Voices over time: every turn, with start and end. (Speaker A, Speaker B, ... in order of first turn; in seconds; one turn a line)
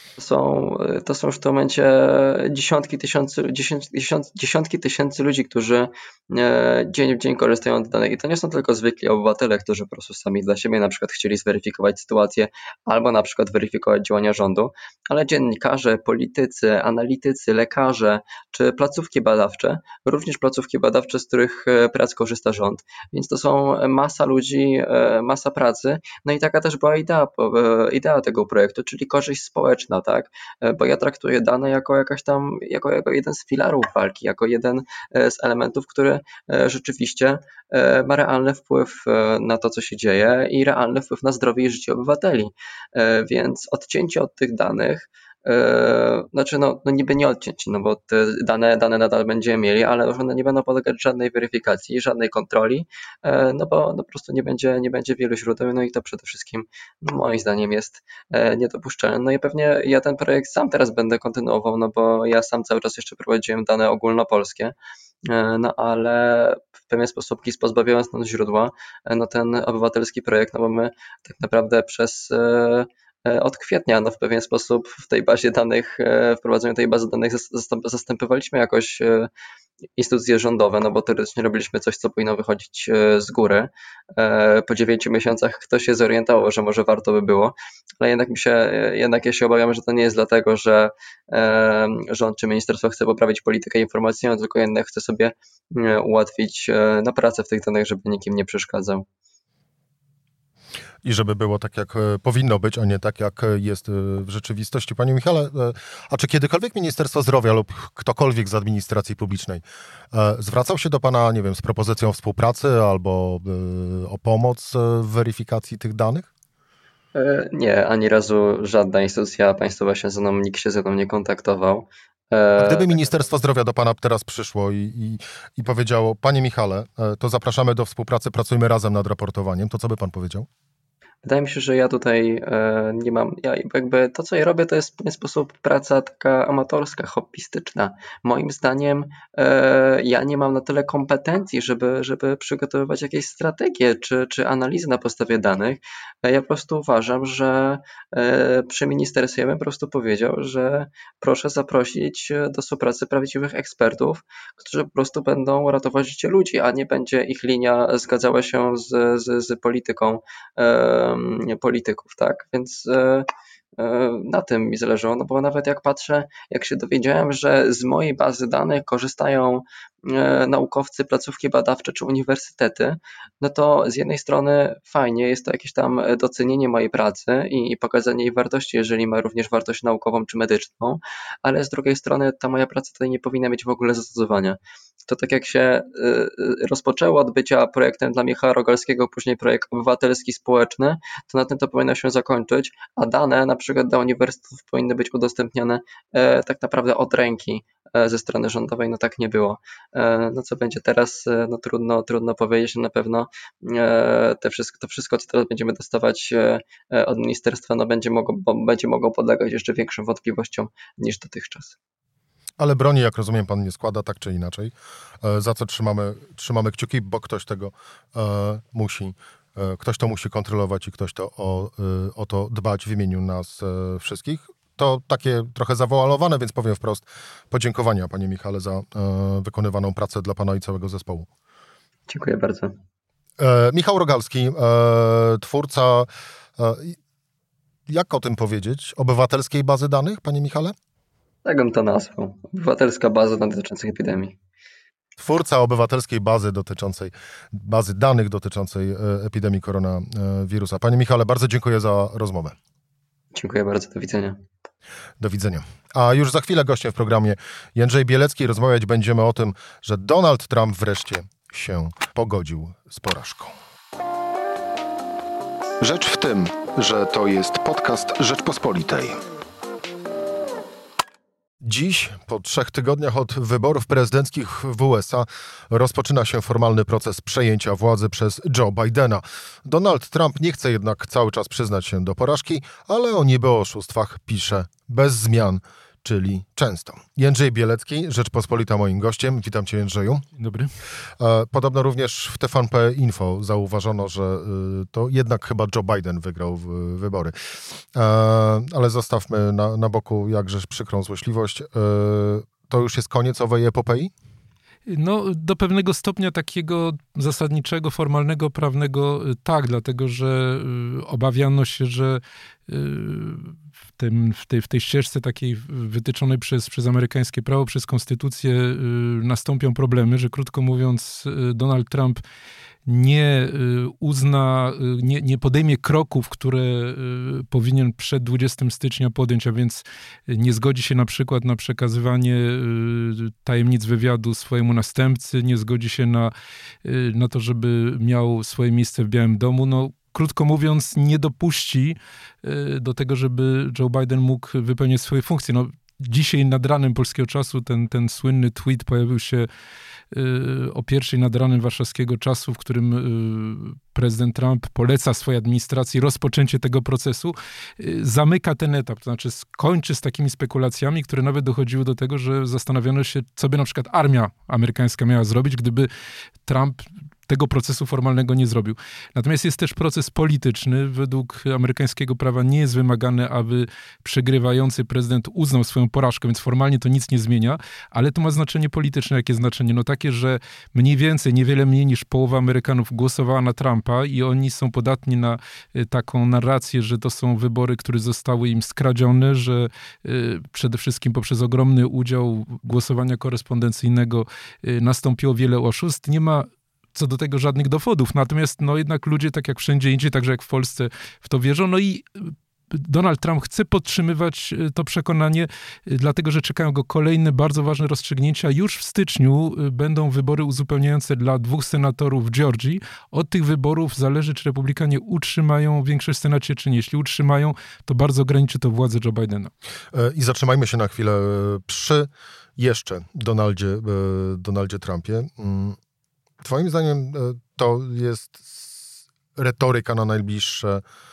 Speaker A: 0.2-79.3
Speaker A: 80.0-99.1
Speaker B: 101.0-116.3
Speaker A: 117.2-123.2
Speaker B: 122.6-130.5
Speaker A: 131.2-211.8
Speaker B: 212.6-231.3
Speaker A: 232.1-232.8
Speaker B: 233.4-237.0
Speaker B: 237.9-240.7
Speaker A: 241.4-244.4
Speaker B: 245.2-252.6
Speaker A: 253.3-254.4
Speaker B: 255.2-263.5
Speaker B: 265.8-269.2
Speaker B: 271.6-290.3
Speaker C: 290.4-290.7
Speaker B: 291.2-297.3
Speaker B: 297.9-304.1
Speaker C: 304.9-322.2
Speaker C: 322.9-336.3
Speaker C: 336.8-349.5
Speaker C: 350.1-365.9
Speaker C: 366.4-419.5
Speaker B: 419.9-425.8
Speaker B: 426.4-430.8